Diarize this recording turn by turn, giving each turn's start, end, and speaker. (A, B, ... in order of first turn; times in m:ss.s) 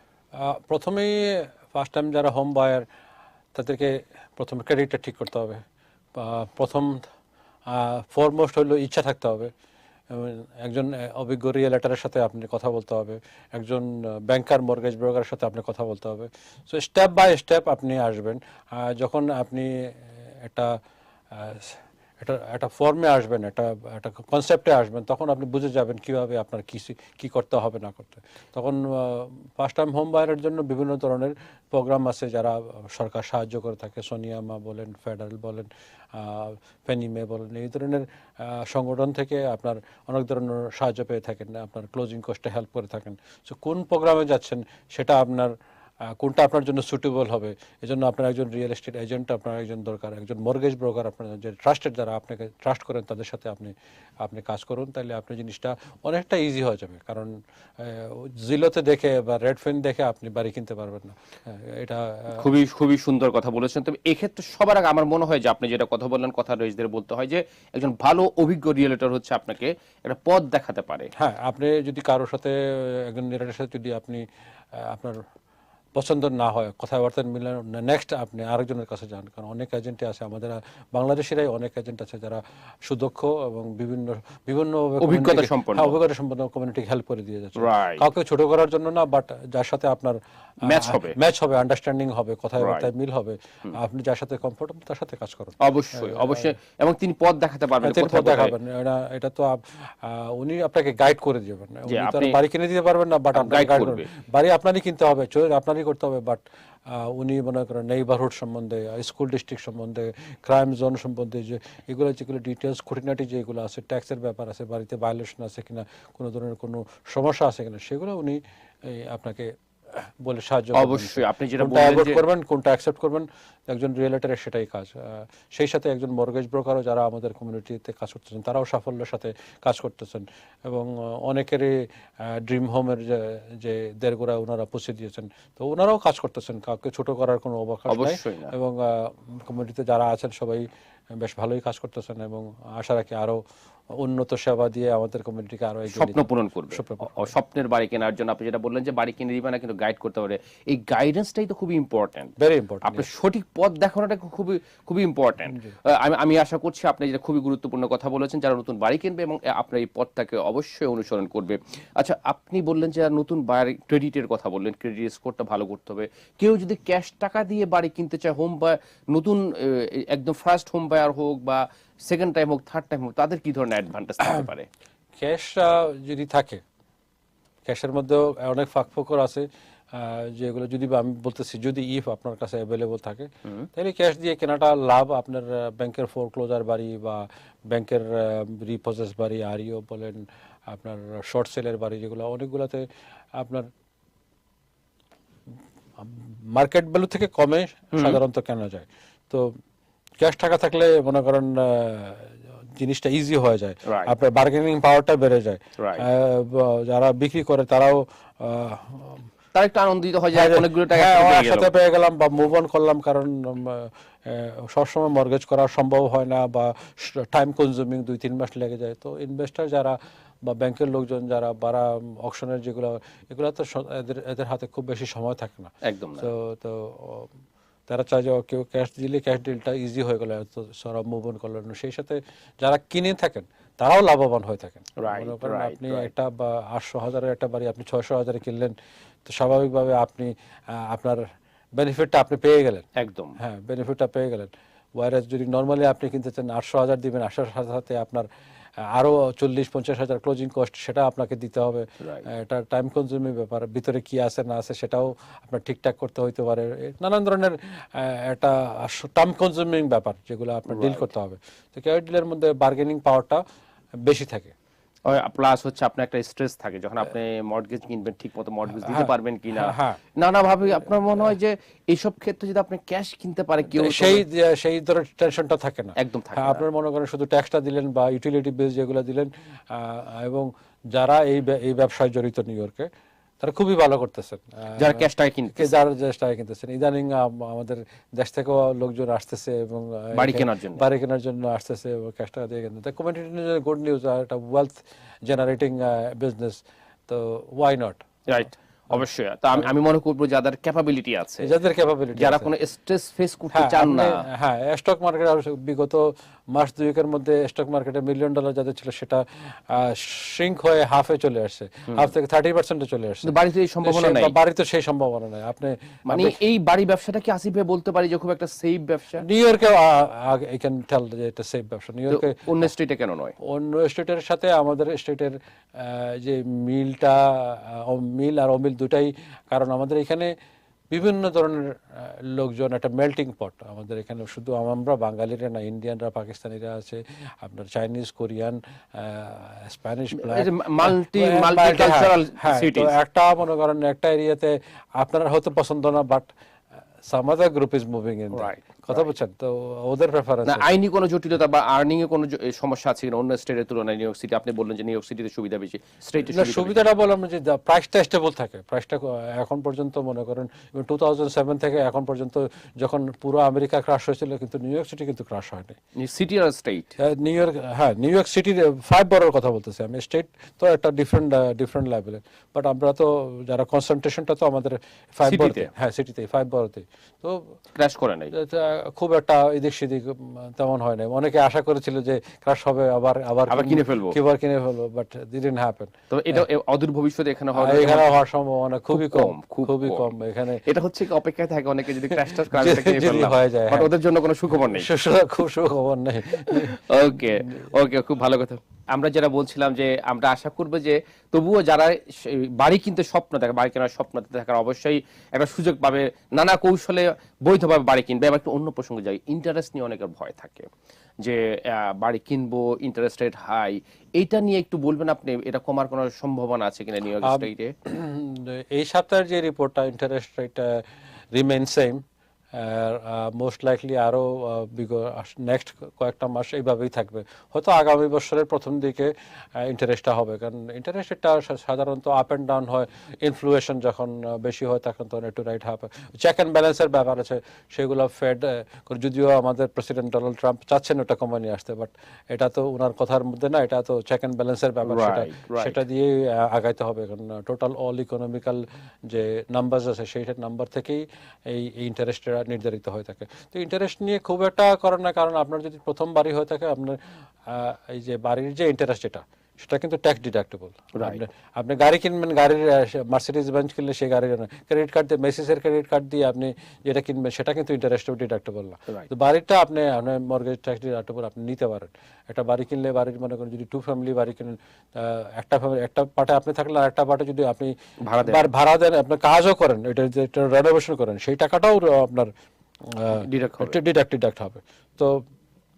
0:00.4-0:02.9 A
0:03.6-0:05.6 A
0:06.1-0:07.1 A
0:07.7-0:09.5 A
0:10.1-1:02.4 A
1:02.3-1:11.1 B
1:11.2-1:15.2 A
1:16.0-1:36.5 A
1:25.0-1:26.0 B
1:27.6-1:28.1 B
1:30.6-1:31.2 B
1:32.6-1:32.9 B
1:35.6-1:38.6 B
1:37.8-2:27.3 A
1:41.9-1:42.4 B
1:43.3-1:44.1 B
2:00.7-2:02.2 B
2:17.9-2:18.5 B
2:25.9-2:54.7 B
2:32.4-2:33.1 A
2:55.2-2:56.6 A
2:57.7-3:13.7 A
3:16.0-3:19.6 A
3:17.9-3:18.2 B
3:20.2-3:29.3 A
3:23.9-3:24.1 B
3:25.8-3:26.1 B
3:29.5-3:31.7 B
3:30.3-3:47.3 A
3:45.8-3:46.3 B
3:47.9-4:02.9 A
3:55.0-3:56.1 B
4:03.0-4:03.4 B
4:03.4-4:08.3 A
4:08.8-4:23.4 A
4:12.0-4:12.3 B
4:20.7-4:21.1 B
4:24.0-4:24.5 A
4:25.1-4:34.2 B
4:28.7-4:30.0 A
4:33.7-4:42.9 A
4:36.0-4:36.6 B
4:43.4-4:58.1 A
4:44.8-4:45.8 B
4:50.1-4:50.9 B
4:58.3-5:01.5 B
5:01.4-5:02.5 A
5:02.2-5:04.2 B
5:03.5-5:16.4 A
5:13.2-5:14.4 B
5:16.1-5:19.2 B
5:19.2-5:22.7 A
5:22.1-5:23.4 B
5:23.4-5:30.3 A
5:30.9-5:46.3 A
5:40.1-5:42.9 B
5:47.0-5:50.7 A
5:48.3-5:49.1 B
5:50.4-5:56.9 B
5:56.2-6:05.8 A
6:06.0-6:06.9 B
6:07.0-6:17.6 A
6:15.2-6:15.7 B
6:17.8-6:18.3 B
6:18.3-6:26.4 A
6:23.5-6:24.2 B
6:26.1-6:28.1 B
6:27.6-6:30.6 A
6:28.9-6:30.1 B
6:30.6-6:34.9 B
6:32.1-6:33.9 A
6:34.7-6:37.6 A
6:36.3-6:50.7 B
6:51.2-6:57.7 B
6:57.2-8:02.3 A
7:24.8-7:25.8 B
7:41.0-7:41.2 B
7:58.0-7:58.4 B
8:02.8-8:05.2 A
8:03.2-8:03.8 B